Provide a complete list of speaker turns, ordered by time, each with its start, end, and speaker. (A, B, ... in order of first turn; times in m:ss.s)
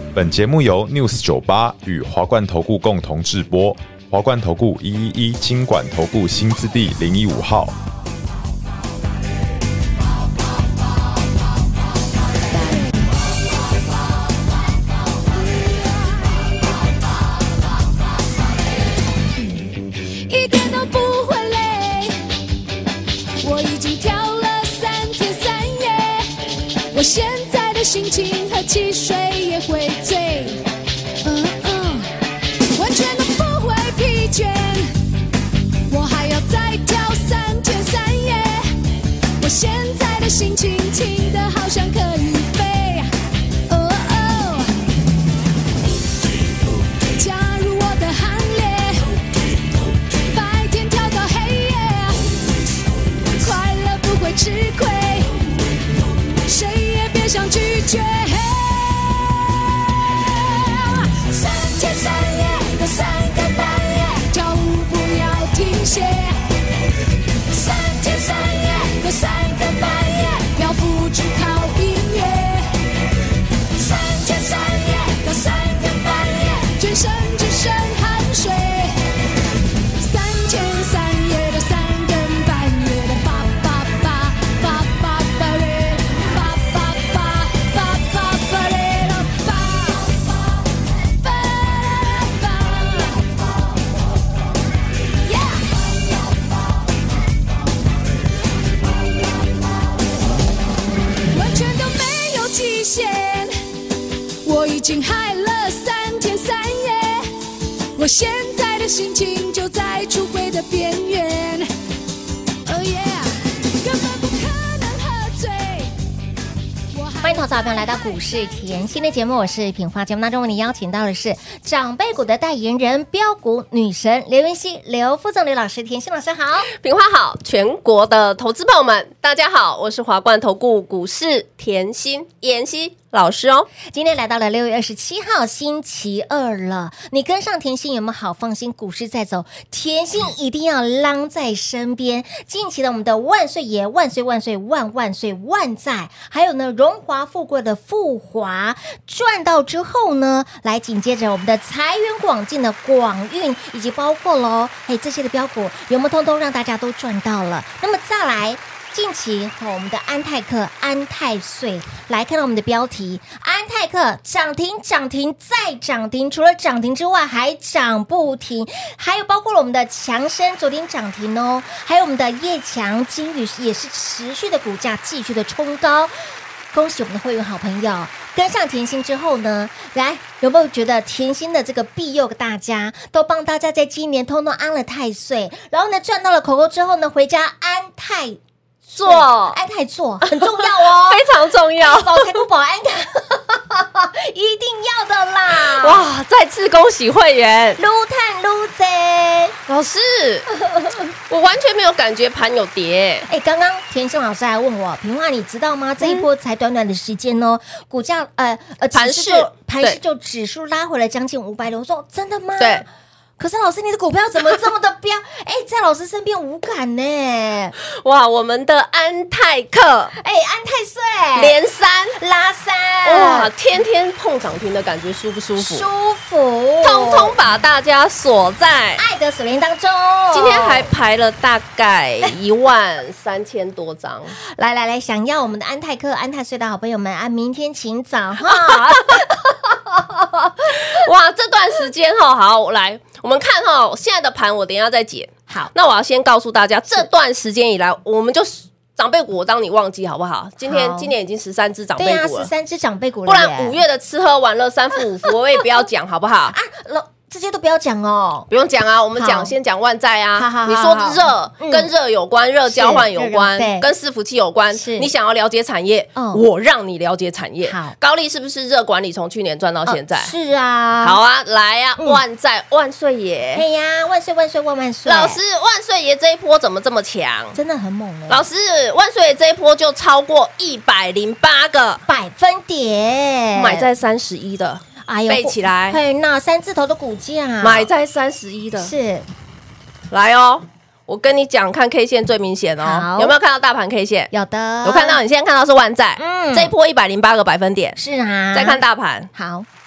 0:00.2-0:07.8 A
0:15.5-0:16.5 B
0:20.3-0:22.2 B
0:23.4-0:26.3 B
0:26.9-0:30.6 B
0:31.2-0:32.2 B
0:32.8-0:34.9 B
0:35.9-0:38.7 B
0:39.4-0:43.1 B
0:43.7-0:44.7 B
0:47.1-0:49.2 B
0:50.3-0:52.3 B
0:53.3-0:55.4 B
0:56.4-1:06.4 B
1:07.5-1:12.8 B
1:13.8-1:18.9 B
1:20.0-1:30.2 B
1:31.2-1:33.3 B
1:35.2-1:35.8 B
1:41.3-1:43.6 B
1:44.4-1:47.3 B
1:48.0-1:51.7 B
1:52.7-1:55.9 B
1:56.9-1:58.0 B
1:57.2-2:06.7 C
2:06.7-2:13.7 D
2:13.9-2:56.1 C
2:56.7-3:08.4 C
3:08.9-3:11.3 C
3:09.0-3:09.6 D
3:10.2-3:12.4 D
3:11.8-3:16.0 C
3:15.6-3:17.8 D
3:17.8-3:19.6 C
3:19.7-3:20.5 D
3:20.6-3:21.0 C
3:21.3-3:23.3 D
3:23.3-3:32.9 C
3:26.0-3:26.3 D
3:29.0-3:30.0 D
3:33.4-3:37.8 C
3:37.8-3:40.2 D
3:40.2-3:41.6 C
3:41.4-3:42.2 D
3:42.2-3:43.5 C
3:43.0-3:45.9 D
3:45.6-3:47.3 C
3:46.8-3:49.0 D
3:49.0-3:50.9 C
3:50.3-3:54.4 D
3:54.4-4:01.0 C
3:58.4-3:59.2 D
4:00.7-4:12.5 D
4:10.6-4:11.1 C
4:12.0-4:13.8 C
4:13.3-4:16.6 D
4:16.5-4:18.5 C
4:18.5-4:30.3 D
4:19.2-4:19.5 C
4:20.4-4:21.9 C
4:22.7-4:23.9 C
4:24.7-4:25.1 C
4:26.2-4:26.4 C
4:27.6-4:28.0 C
4:29.9-4:31.2 C
4:31.0-4:33.6 D
4:33.6-4:35.4 C
4:35.1-4:37.6 D
4:37.5-4:38.5 C
4:38.3-4:42.0 D
4:42.1-4:43.9 C
4:43.6-4:46.0 D
4:45.0-4:47.9 C
4:47.6-4:48.9 D
4:48.8-4:49.3 C
4:50.1-4:54.3 D
4:52.8-4:53.3 C
4:54.3-4:55.2 C
4:54.8-4:58.0 D
4:56.2-4:56.7 C
4:58.0-4:58.8 C
4:58.5-4:59.3 D
4:59.3-4:59.7 C